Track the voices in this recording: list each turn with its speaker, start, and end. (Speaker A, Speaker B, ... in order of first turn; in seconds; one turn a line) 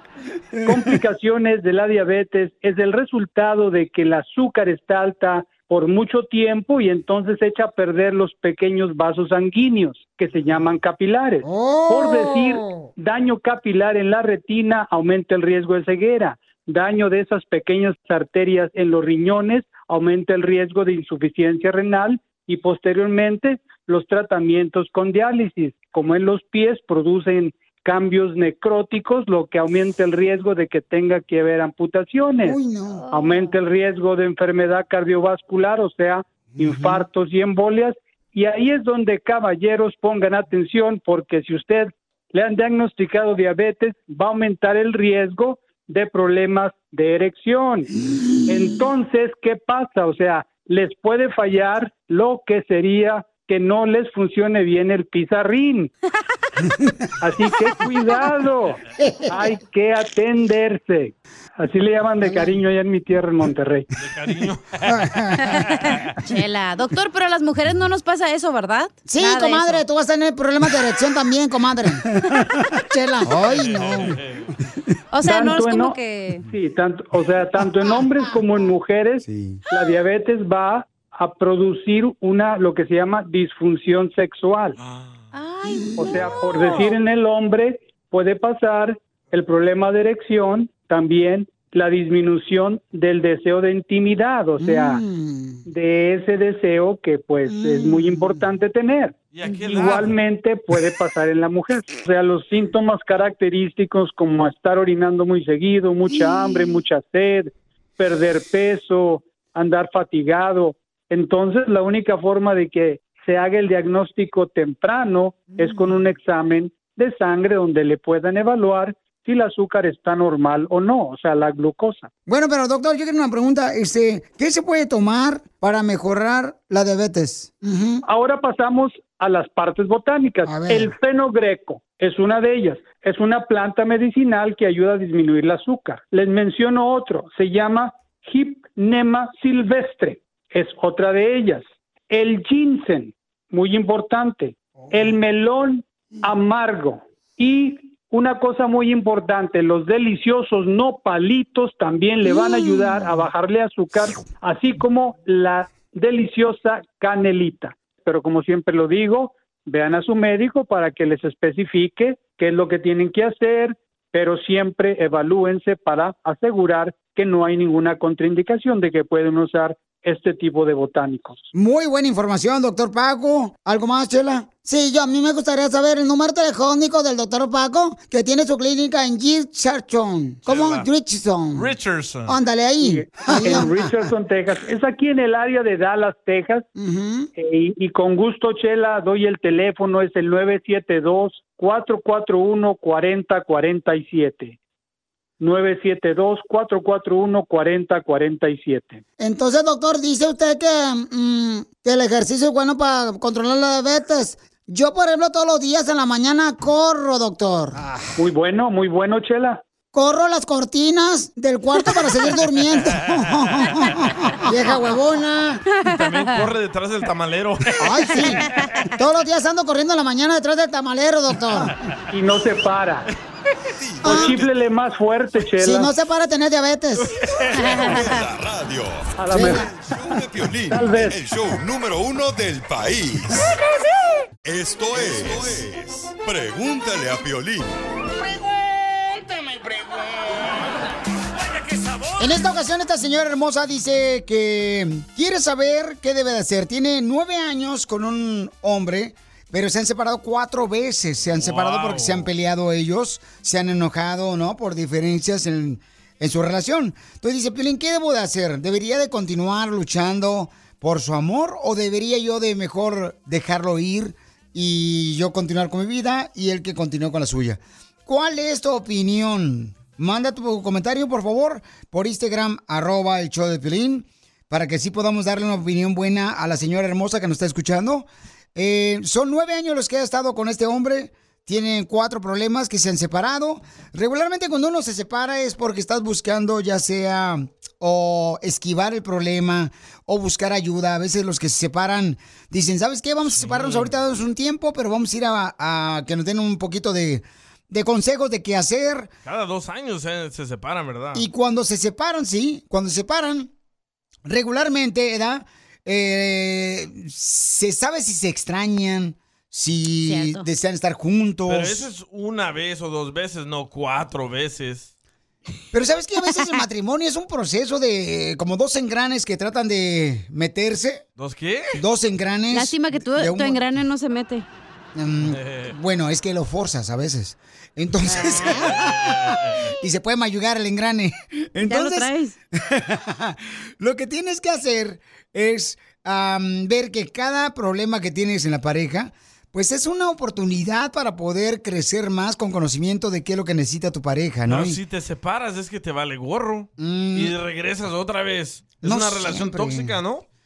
Speaker A: 0.7-32.6
Speaker B: 11.4-12.9
Speaker B: 32.4-33.1
Speaker A: 33.1-47.9
Speaker B: 36.6-37.0
Speaker A: 48.5-55.9
Speaker A: 57.2-63.9
Speaker B: 59.0-59.4
Speaker B: 62.2-62.5
Speaker C: 64.0-66.1
Speaker B: 64.8-65.3
Speaker D: 65.4-69.8
Speaker B: 69.0-72.0
Speaker B: 72.9-74.2
Speaker C: 73.5-74.5
Speaker D: 75.1-76.5
Speaker A: 75.2-84.8
Speaker B: 79.2-79.6
Speaker C: 84.8-85.1
Speaker D: 85.3-86.9
Speaker A: 86.0-95.0
Speaker B: 94.6-95.6
Speaker A: 95.7-99.2
Speaker B: 97.6-98.2
Speaker C: 99.3-100.1
Speaker A: 99.7-122.1
Speaker B: 122.2-128.0
Speaker A: 128.1-171.5
Speaker B: 130.4-130.9
Speaker B: 171.5-181.7
Speaker C: 180.4-180.9
Speaker C: 181.5-182.4
Speaker B: 182.3-183.9
Speaker A: 182.8-186.7
Speaker B: 186.8-187.3
Speaker A: 187.3-194.6
Speaker A: 195.4-199.0
Speaker B: 199.2-207.8
Speaker A: 208.2-209.6
Speaker B: 209.9-215.6
Speaker D: 215.7-216.4
Speaker C: 215.8-218.3
Speaker B: 217.8-221.7
Speaker D: 218.6-218.8
Speaker A: 222.1-223.1
Speaker E: 223.8-224.5
Speaker B: 224.0-224.4
Speaker A: 224.0-225.9
Speaker B: 225.6-227.1
Speaker C: 227.0-227.7
Speaker D: 227.6-228.1
Speaker E: 227.7-233.5
Speaker A: 229.2-229.7
Speaker B: 229.3-229.7
Speaker A: 230.7-231.2
Speaker E: 234.4-237.7
Speaker B: 242.2-299.1
Speaker C: 251.4-252.3
Speaker C: 293.3-293.9
Speaker C: 299.2-301.2
Speaker B: 301.1-303.5
Speaker B: 304.2-311.9
Speaker D: 310.0-310.4
Speaker C: 311.5-314.9
Speaker B: 315.7-321.0
Speaker C: 321.2-321.8
Speaker B: 321.7-323.6
Speaker D: 322.5-324.4
Speaker B: 324.9-344.8
Speaker C: 325.2-325.7
Speaker C: 328.2-329.7
Speaker D: 331.6-332.3
Speaker C: 344.5-350.2
Speaker B: 346.8-347.3
Speaker B: 348.8-350.0